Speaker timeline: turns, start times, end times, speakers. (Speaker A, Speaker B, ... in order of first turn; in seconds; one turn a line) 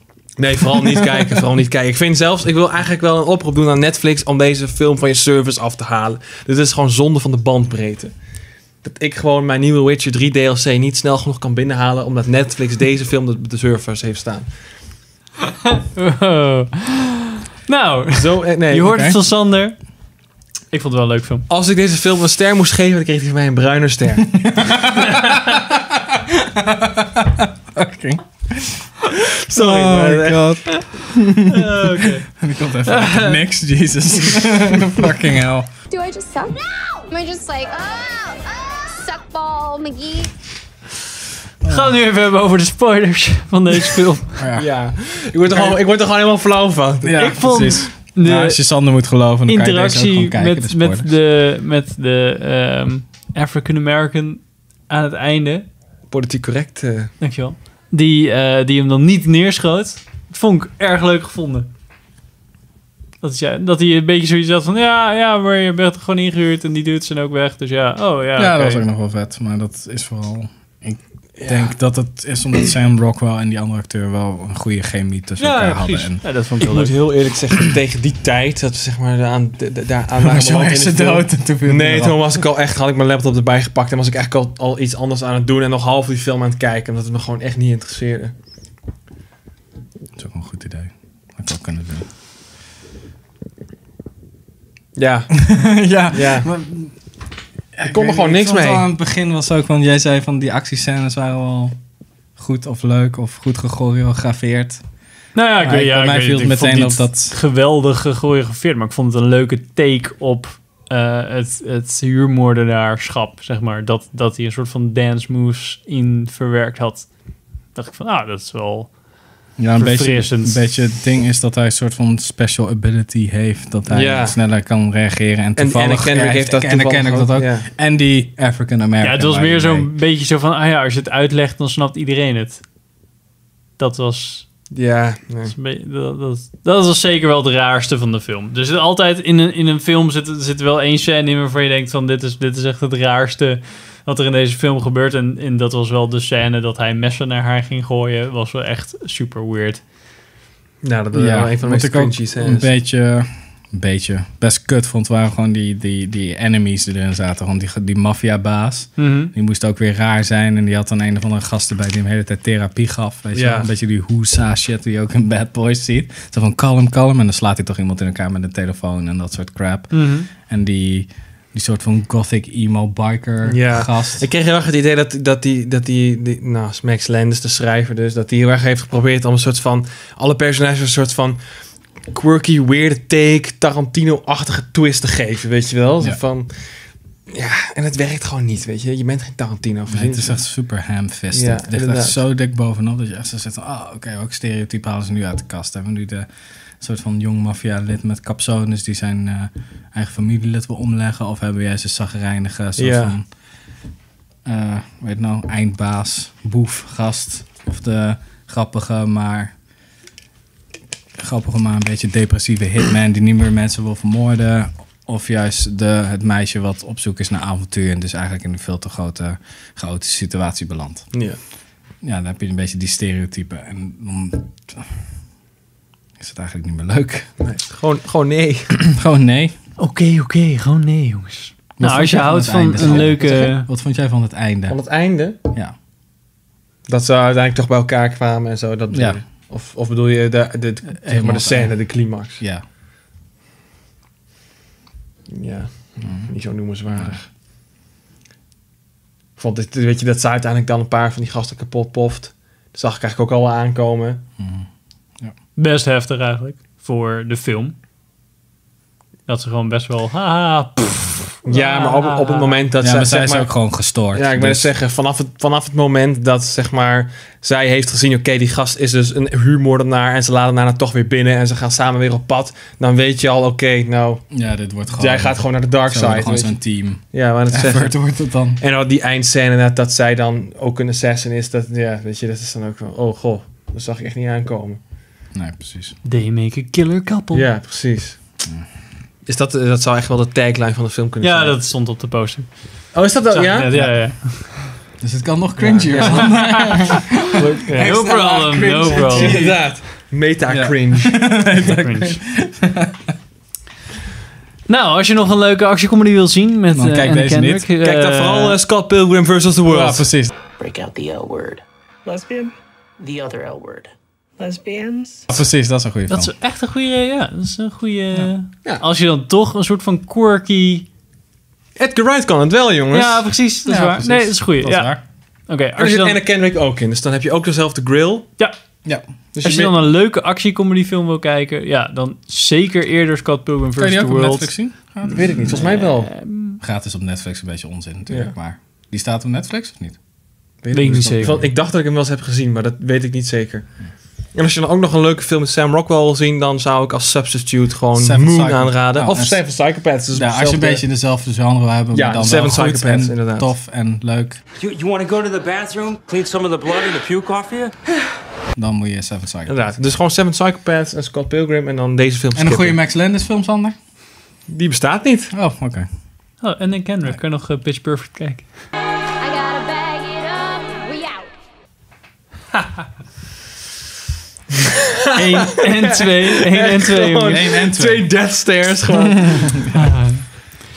Speaker A: 0.4-8.1
Speaker A: 8.8-14.5
Speaker B: 15.6-19.8
Speaker A: 18.1-19.1
Speaker C: 18.9-19.1
Speaker B: 20.7-21.4
Speaker A: 21.5-25.2
Speaker C: 24.5-28.9
Speaker A: 29.5-30.4
Speaker C: 29.5-35.7
Speaker B: 31.5-32.3
Speaker B: 32.9-33.4
Speaker D: 35.9-40.3
Speaker C: 41.6-41.9
Speaker B: 41.6-44.4
Speaker C: 44.4-44.7
Speaker A: 44.5-47.3
Speaker C: 47.0-51.1
Speaker B: 47.2-48.6
Speaker B: 49.5-55.7
Speaker A: 56.1-57.1
Speaker B: 57.2-61.7
Speaker B: 63.2-68.8
Speaker C: 68.4-76.2
Speaker A: 71.4-71.7
Speaker B: 75.4-76.9
Speaker A: 76.6-88.3
Speaker C: 80.2-82.2
Speaker C: 90.2-92.1
Speaker A: 95.0-95.5
Speaker C: 95.3-96.9
Speaker A: 96.1-96.5
Speaker C: 97.7-101.7
Speaker A: 97.9-98.9
Speaker C: 102.4-104.8
Speaker B: 105.3-117.1
Speaker C: 105.6-107.3
Speaker B: 117.7-118.9
Speaker C: 119.6-129.9
Speaker B: 119.7-120.6
Speaker A: 123.9-124.3
Speaker A: 125.6-127.7
Speaker B: 129.0-132.6
Speaker B: 133.8-134.5
Speaker A: 134.7-135.5
Speaker B: 135.5-149.8
Speaker A: 150.8-152.7
Speaker C: 151.1-174.2
Speaker B: 159.0-159.3
Speaker A: 163.3-163.7
Speaker B: 169.9-170.2
Speaker A: 173.4-181.4
Speaker A: 182.1-186.5
Speaker A: 187.3-190.4
Speaker C: 189.9-196.3
Speaker A: 191.3-192.2
Speaker C: 196.8-203.2
Speaker A: 202.8-203.1
Speaker C: 204.4-209.5
Speaker C: 211.2-221.2
Speaker A: 221.1-221.4
Speaker C: 222.0-225.0
Speaker C: 226.2-227.3
Speaker A: 227.4-228.8
Speaker C: 228.9-229.5
Speaker B: 229.8-233.7
Speaker C: 231.8-234.8
Speaker A: 232.8-233.4
Speaker A: 234.7-235.4
Speaker A: 236.9-242.4
Speaker C: 238.9-239.2
Speaker C: 241.0-242.6
Speaker A: 245.3-247.3
Speaker C: 246.0-246.3
Speaker A: 249.4-254.2
Speaker C: 254.4-254.7
Speaker B: 255.6-257.8
Speaker B: 259.3-262.6
Speaker A: 261.4-263.5
Speaker C: 262.8-264.7
Speaker A: 264.1-274.2
Speaker C: 274.3-278.6
Speaker A: 274.9-284.8
Speaker C: 285.3-286.0
Speaker B: 286.0-287.5
Speaker A: 287.3-288.2
Speaker A: 289.2-291.6
Speaker B: 291.2-292.5
Speaker A: 292.9-293.7
Speaker B: 293.3-294.6
Speaker C: 293.7-294.0
Speaker C: 295.0-299.6
Speaker A: 295.6-301.2
Speaker B: 297.8-299.4
Speaker C: 300.5-303.1
Speaker B: 301.5-302.2
Speaker B: 304.7-308.6
Speaker C: 306.7-307.6
Speaker A: 307.8-310.1
Speaker C: 309.6-310.3
Speaker E: 310.6-313.9
Speaker E: 314.4-315.2
Speaker C: 315.3-316.3
Speaker B: 316.1-320.9
Speaker A: 321.8-323.2
Speaker B: 322.9-324.9
Speaker C: 323.6-325.0
Speaker B: 325.5-326.2
Speaker A: 325.8-328.3
Speaker A: 329.3-329.8
Speaker B: 329.4-334.5
Speaker C: 333.8-335.6
Speaker A: 335.1-336.1
Speaker B: 335.5-336.6
Speaker C: 336.6-340.0
Speaker A: 340.6-343.6
Speaker B: 340.7-341.4
Speaker C: 341.1-341.5
Speaker A: 344.3-350.8
Speaker C: 347.9-349.4
Speaker C: 350.1-354.4
Speaker A: 351.9-353.5
Speaker F: 354.6-357.7
Speaker C: 358.5-359.8
Speaker A: 359.5-362.8
Speaker C: 362.3-363.8
Speaker A: 364.5-365.3
Speaker C: 365.3-365.9
Speaker B: 366.4-368.4
Speaker D: 369.2-371.3
Speaker A: 374.7-379.5
Speaker B: 375.1-377.4
Speaker C: 377.2-378.1
Speaker C: 378.9-379.7
Speaker B: 379.7-380.2